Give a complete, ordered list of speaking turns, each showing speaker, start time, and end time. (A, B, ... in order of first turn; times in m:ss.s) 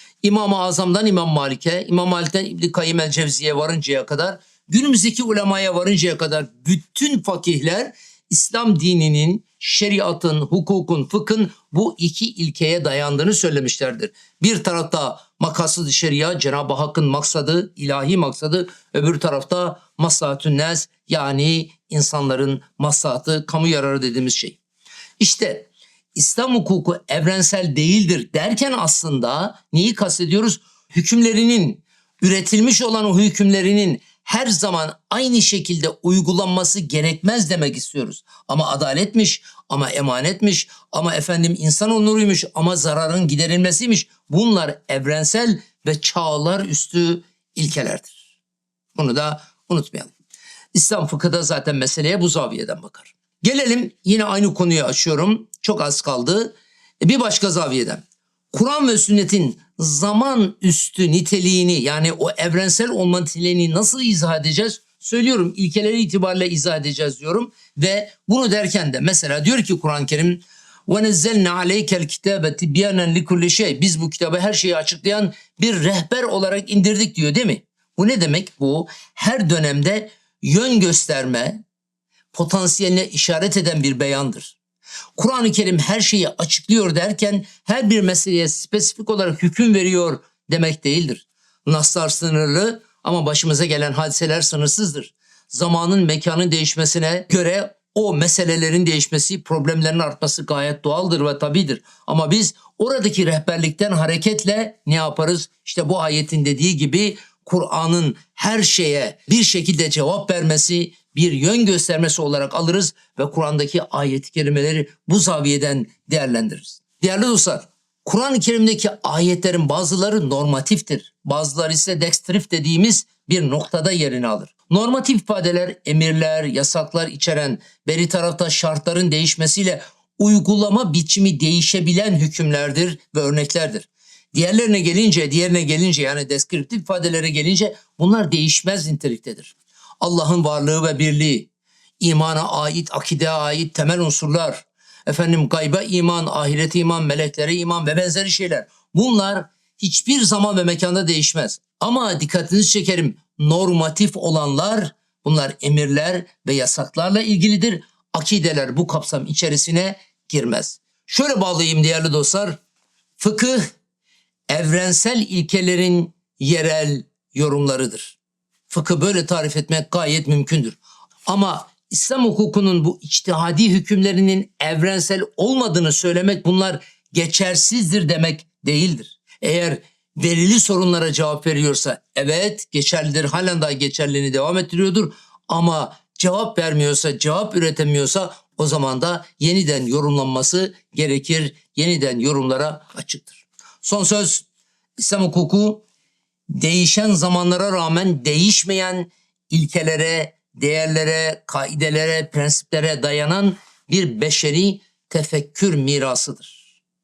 0:00.2-0:24.6 A
0:25.2-0:48.2 A
0:48.9-0:50.1 A
0:50.7-1:21.6 A
1:22.3-1:24.6 A
1:25.2-2:21.5 A
2:22.0-2:42.6 A
2:43.2-2:43.7 A
2:44.5-2:48.2 A
2:48.7-3:14.4 A
3:15.0-3:15.8 A
3:16.5-3:26.7 A